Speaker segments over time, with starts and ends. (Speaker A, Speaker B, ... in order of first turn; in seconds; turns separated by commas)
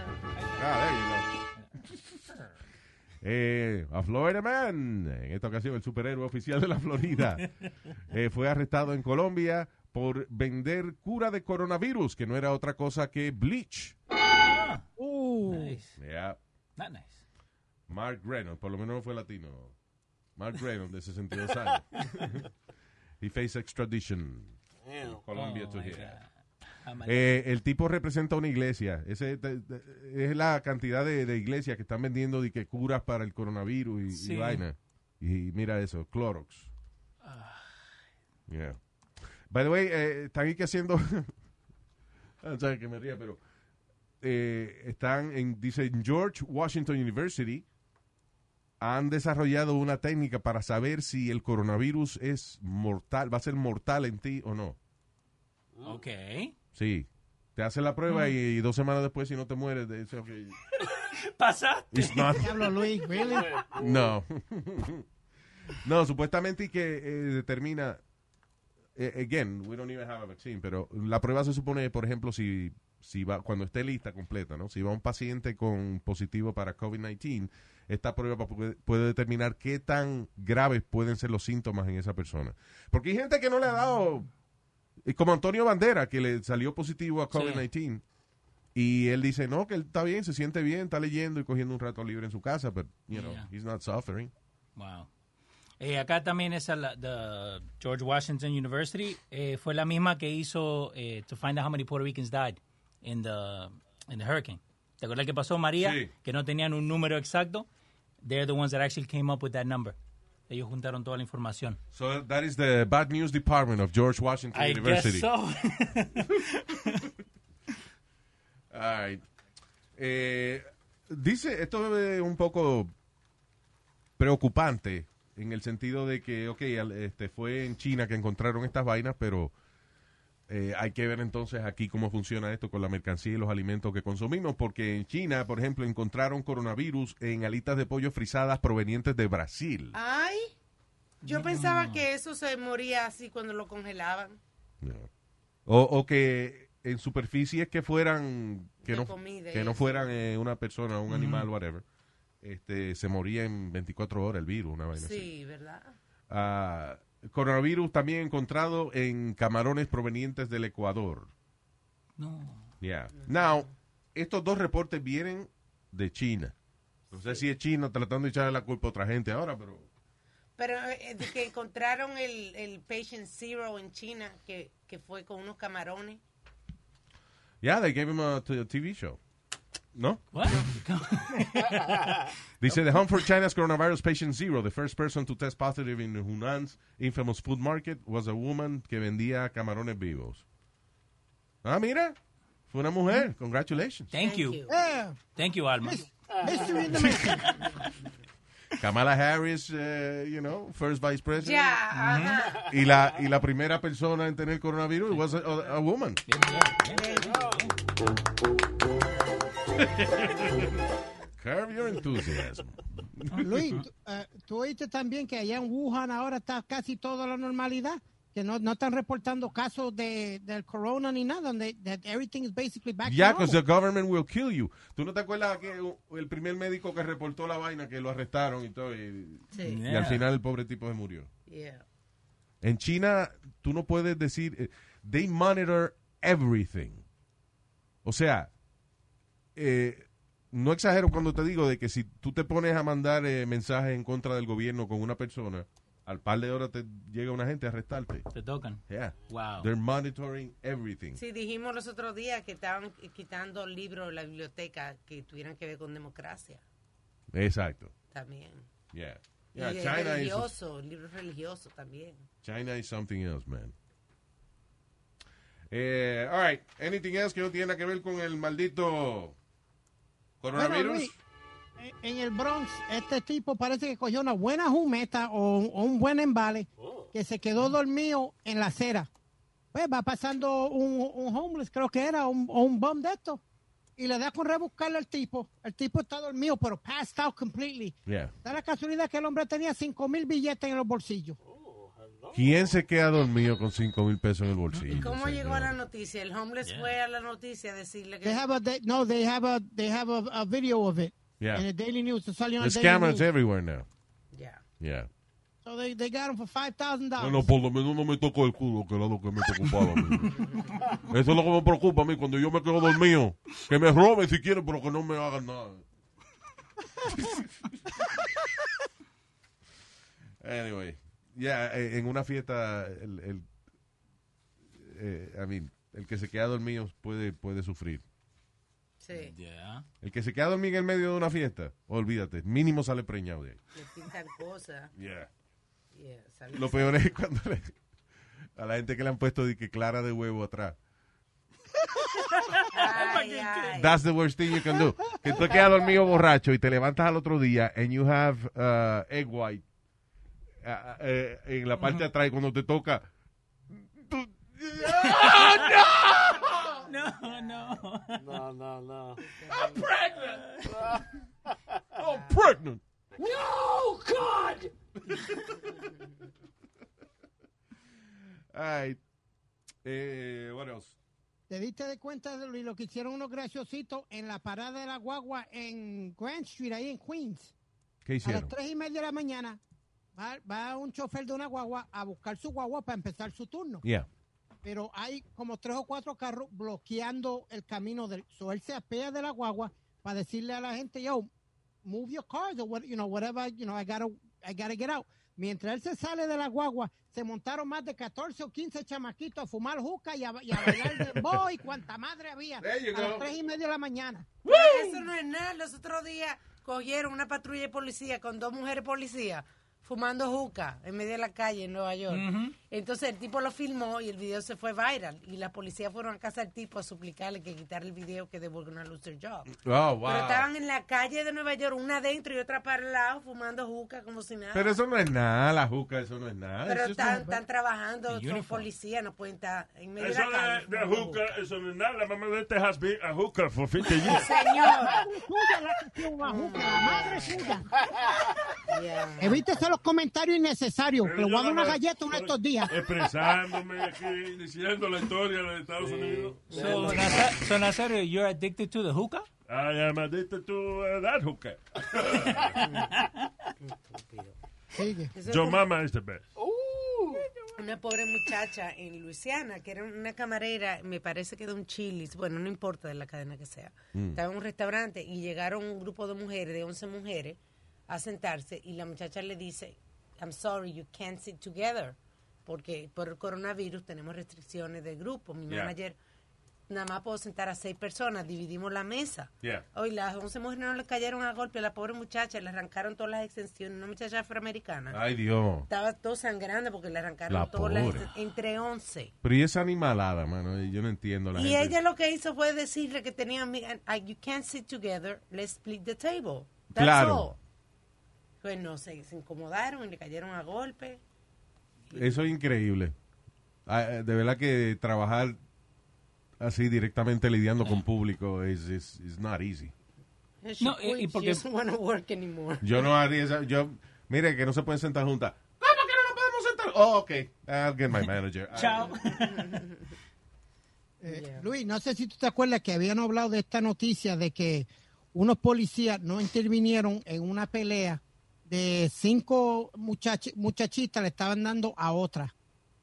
Speaker A: 0.3-0.7, Speaker B: 0.6-1.3, Speaker B: 3.2-7.5, Speaker B: 8.1-13.9, Speaker A: 14.4-14.9, Speaker C: 15.0-15.8, Speaker A: 15.5-15.9, Speaker B: 16.0-16.4, Speaker A: 16.8-17.2, Speaker B: 17.9-19.7, Speaker B: 20.4-22.4, Speaker B: 23.2-26.2, Speaker D: 24.9-25.2, Speaker A: 25.3-27.3, Speaker B: 27.1-36.7, Speaker A: 34.1-34.6, Speaker A: 37.2-37.7, Speaker B: 38.5-38.8, Speaker B: 39.5-41.3, Speaker B: 42.4-43.4, Speaker B: 44.2-47.6, Speaker B: 48.8-54.8, Speaker D: 55.8-56.0, Speaker A: 55.8-56.5, Speaker B: 56.7-60.6, Speaker A: 58.1-58.4, Speaker A: 61.1-62.6, Speaker B: 61.9-62.7, Speaker C: 62.4-63.5, Speaker D: 63.2-64.2, Speaker B: 63.8-65.1, Speaker B: 65.8-68.0, Speaker B: 69.0-84.3, Speaker B: 85.0-88.0, Speaker A: 87.3-87.7, Speaker B: 88.8-94.3, Speaker A: 93.1-93.5, Speaker A: 94.8-95.1, Speaker A: 95.8-107.7, Speaker B: 105.8-106.1, Speaker A: 108.2-110.0, Speaker A: 110.5-111.8, Speaker B: 111.9-115.3, Speaker A: 114.5-117.1, Speaker B: 118.7-119.2, Speaker B: 120.0-122.9, Speaker B: 124.2-129.5, Speaker B: 130.5-140.0, Speaker E: 139.9-140.5, Speaker A: 141.2-142.1, Speaker E: 141.2-144.4, Speaker B: 144.8-145.1, Speaker B: 145.7-151.8, Speaker E: 148.8-150.1, Speaker A: 151.1-151.5, Speaker B: 152.4-155.3, Speaker E: 154.9-155.9, Speaker B: 156.3-161.3, Speaker A: 162.2-162.7, Speaker B: 162.8-166.6, Speaker E: 163.2-163.7, Speaker B: 167.1-169.9, Speaker E: 167.1-167.4, Speaker E: 170.6-176.2, Speaker B: 177.6-179.2, Speaker B: 179.9-180.8, Speaker A: 180.3-182.3, Speaker B: 182.6-190.4, Speaker B: 191.6-192.2, Speaker B: 192.7-194.1, Speaker A: 194.1-194.6, Speaker E: 194.2-194.8, Speaker C: 194.7-195.2, Speaker A: 195.3-196.1, Speaker C: 195.8-197.6, Speaker D: 196.3-196.8, Speaker A: 197.0-197.7, Speaker B: 198.8-201.8, Speaker E: 201.4-202.7, Speaker A: 201.9-202.4, Speaker B: 202.7-206.2, Speaker A: 206.3-207.7, Speaker E: 206.9-207.6, Speaker D: 207.1-207.7, Speaker B: 209.8-210.7, Speaker B: 211.4-213.6, Speaker A: 213.3-213.8, Speaker C: 213.3-223.6, Speaker B: 223.0-231.3, Speaker E: 229.5-229.8, Speaker A: 229.6-230.2, Speaker E: 231.5-231.8, Speaker B: 232.6-237.0, Speaker B: 238.0-238.5, Speaker B: 239.6-248.3, Speaker A: 248.3-249.7, Speaker B: 248.9-251.2, Speaker E: 251.2-256.6, Speaker B: 257.3-257.9, Speaker E: 258.1-258.7, Speaker B: 258.9-260.5, Speaker E: 259.6-262.3, Speaker B: 262.4-263.7, Speaker B: 265.7-269.4, Speaker B: 270.4-271.1, Speaker C: 270.5-271.1, Speaker C: 271.8-279.1, Speaker D: 276.8-277.1, Speaker C: 279.7-283.4, Speaker C: 284.0-291.4, Speaker B: 288.1-288.3, Speaker D: 291.4-292.8, Speaker B: 292.3-295.8, Speaker A: 294.7-295.1, Speaker E: 294.9-298.4, Speaker A: 296.6-296.9, Speaker C: 298.2-303.2, Speaker B: 301.4-301.6, Speaker B: 302.6-303.9, Speaker E: 304.3-304.6, Speaker B: 304.8-305.1, Speaker C: 305.6-307.5, Speaker B: 307.2-310.4, Speaker B: 311.0-315.8, Speaker B: 317.1-317.5, Speaker B: 320.4-323.5, Speaker B: 324.7-328.0, Speaker E: 329.0-329.4, Speaker A: 329.1-329.9, Speaker B: 330.0-333.6, Speaker E: 333.7-334.9, Speaker B: 334.9-335.3, Speaker E: 335.9-337.1, Speaker B: 336.5-337.8, Speaker B: 338.6-340.8, Speaker A: 342.2-343.9, Speaker E: 342.7-343.9, Speaker B: 343.7-349.6, Speaker B: 350.6-353.1, Speaker A: 351.8-352.1, Speaker B: 353.7-356.9, Speaker A: 355.0-355.8, Speaker E: 356.6-357.6, Speaker A: 356.8-358.4, Speaker D: 358.2-359.2, Speaker E: 359.2-359.9, Speaker B: 359.5-360.4, Speaker A: 360.3-360.7, Speaker D: 360.7-361.1, Speaker B: 362.0-365.4, Speaker E: 362.0-362.4, Speaker A: 365.1-365.5, Speaker B: 368.5-369.0, Speaker B: 369.8-370.9, Speaker C: 371.5-377.5, Speaker B: 378.1-378.5, Speaker C: 378.2-379.6, Speaker C: 380.2-383.8, Speaker B: 383.8-384.1, Speaker C: 384.6-391.3, Speaker C: 391.8-404.4, Speaker B: 400.8-401.4, Speaker B: 402.6-403.3, Speaker A: 404.4-405.1, Speaker E: 404.4-424.7, Speaker A: 412.1-412.6, Speaker B: 419.6-420.5, Speaker B: 424.5-427.1, Speaker E: 426.6-431.4, Speaker C: 426.9-427.4, Speaker A: 428.1-428.7, Speaker F: 430.0-434.3, Speaker E: 433.9-435.1, Speaker D: 434.4-435.0, Speaker C: 434.9-437.7, Speaker E: 436.2-437.6, Speaker D: 437.7-438.3, Speaker E: 438.7-439.7, Speaker C: 439.2-442.8, Speaker F: 441.0-446.9, Speaker D: 445.8-447.5, Speaker A: 446.5-449.3, Speaker F: 449.5-452.6, Speaker E: 452.6-453.1, Speaker E: 453.6-454.4, Speaker C: 454.7-455.1, Speaker E: 455.1-455.7, Speaker F: 455.3-456.2, Speaker D: 456.4-457.3, Speaker E: 457.6-476.0, Speaker B: 463.9-464.2, Speaker B: 475.5-475.7, Speaker E: 476.7-485.0, Speaker B: 484.9-485.7, Speaker E: 485.7-489.1, Speaker B: 487.3-488.1, Speaker B: 489.2-491.8, Speaker E: 491.3-497.4, Speaker B: 496.7-497.3, Speaker E: 498.4-501.0, Speaker B: 501.9-502.9, Speaker B: 503.7-505.4, Speaker B: 506.4-509.7, Speaker E: 510.4-512.9, Speaker A: 510.6-511.4, Speaker B: 512.6-519.0, Speaker A: 518.5-519.5, Speaker E: 518.8-519.9, Speaker C: 521.0-532.3, Speaker E: 521.1-521.5